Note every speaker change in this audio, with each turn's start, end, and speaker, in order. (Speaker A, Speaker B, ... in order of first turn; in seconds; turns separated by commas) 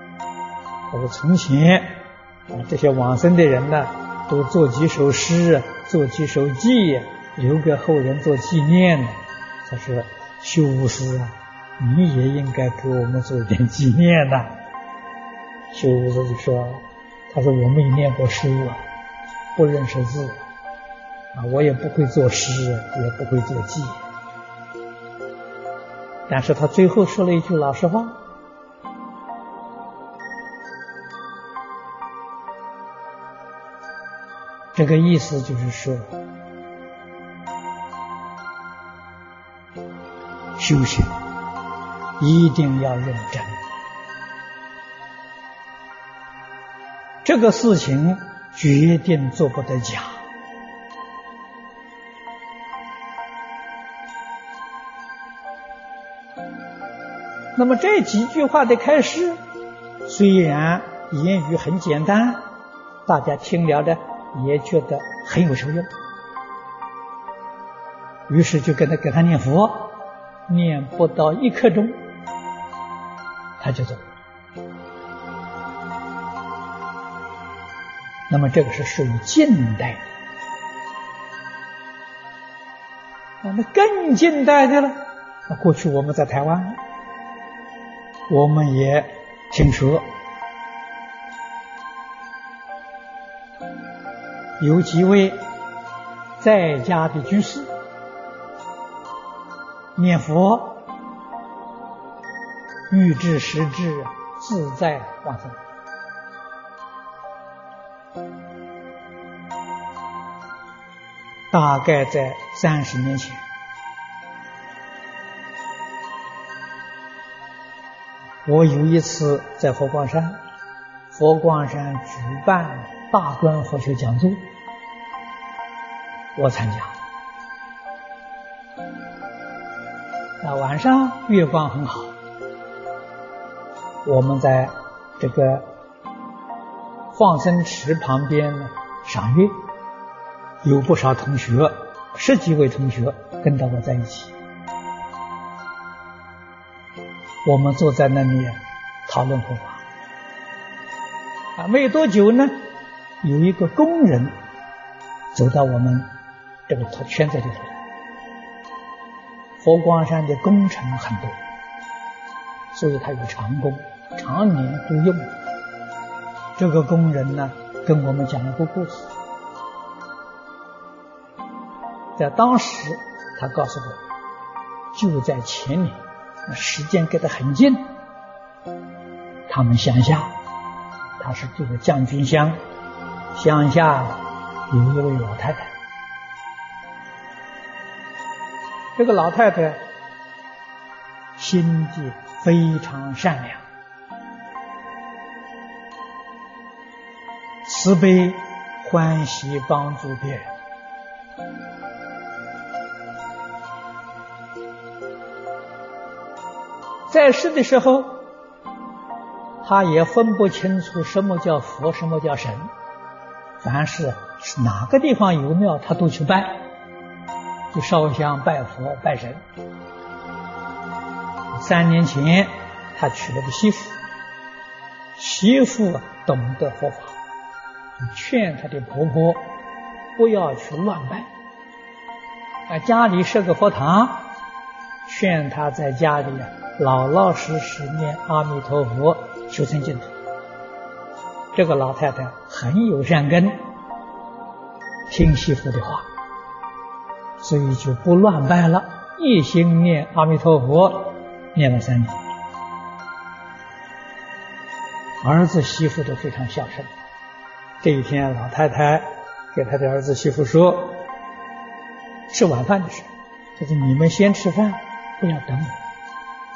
Speaker A: 0.9-14.5, Speaker A: 15.7-18.8, Speaker A: 19.6-20.4, Speaker A: 21.3-24.0, Speaker A: 26.3-28.2, Speaker A: 34.7-36.1, Speaker A: 40.6-41.1, Speaker A: 42.2-43.5, Speaker A: 47.2-50.2, Speaker A: 57.5-59.4, Speaker A: 60.0-62.5, Speaker A: 63.0-65.9, Speaker A: 68.3-72.0, Speaker A: 73.6-74.0, Speaker A: 78.3-80.0, Speaker A: 83.4-86.8, Speaker A: 88.3-90.0, Speaker A: 94.6-95.5, Speaker A: 96.4-97.7, Speaker A: 100.0-100.9, Speaker A: 102.9-105.6, Speaker A: 111.5-113.4, Speaker A: 118.5-120.4, Speaker A: 121.1-124.5, Speaker A: 126.3-126.9, Speaker A: 130.4-132.2, Speaker A: 134.0-135.7, Speaker A: 137.1-139.6, Speaker A: 140.6-144.3, Speaker A: 147.4-149.8, Speaker A: 151.6-152.6, Speaker A: 153.2-154.3, Speaker A: 155.3-156.1, Speaker A: 156.7-157.8, Speaker A: 159.6-161.4, Speaker A: 162.7-165.3, Speaker A: 166.6-169.1, Speaker A: 172.2-174.0, Speaker A: 174.9-178.0, Speaker A: 179.5-180.3, Speaker A: 181.2-182.6, Speaker A: 183.3-185.7, Speaker A: 188.9-189.8, Speaker A: 191.4-193.6, Speaker A: 197.6-200.5, Speaker A: 207.1-208.3, Speaker A: 209.6-212.7, Speaker A: 213.6-216.7, Speaker A: 217.7-219.4, Speaker A: 221.5-224.0, Speaker A: 225.2-227.2, Speaker A: 228.0-229.5, Speaker A: 230.2-231.3, Speaker A: 232.7-234.3, Speaker A: 235.1-240.1, Speaker A: 241.5-243.7, Speaker A: 245.1-246.1, Speaker A: 247.4-252.2, Speaker A: 255.2-256.9, Speaker A: 257.8-261.1, Speaker A: 262.3-265.8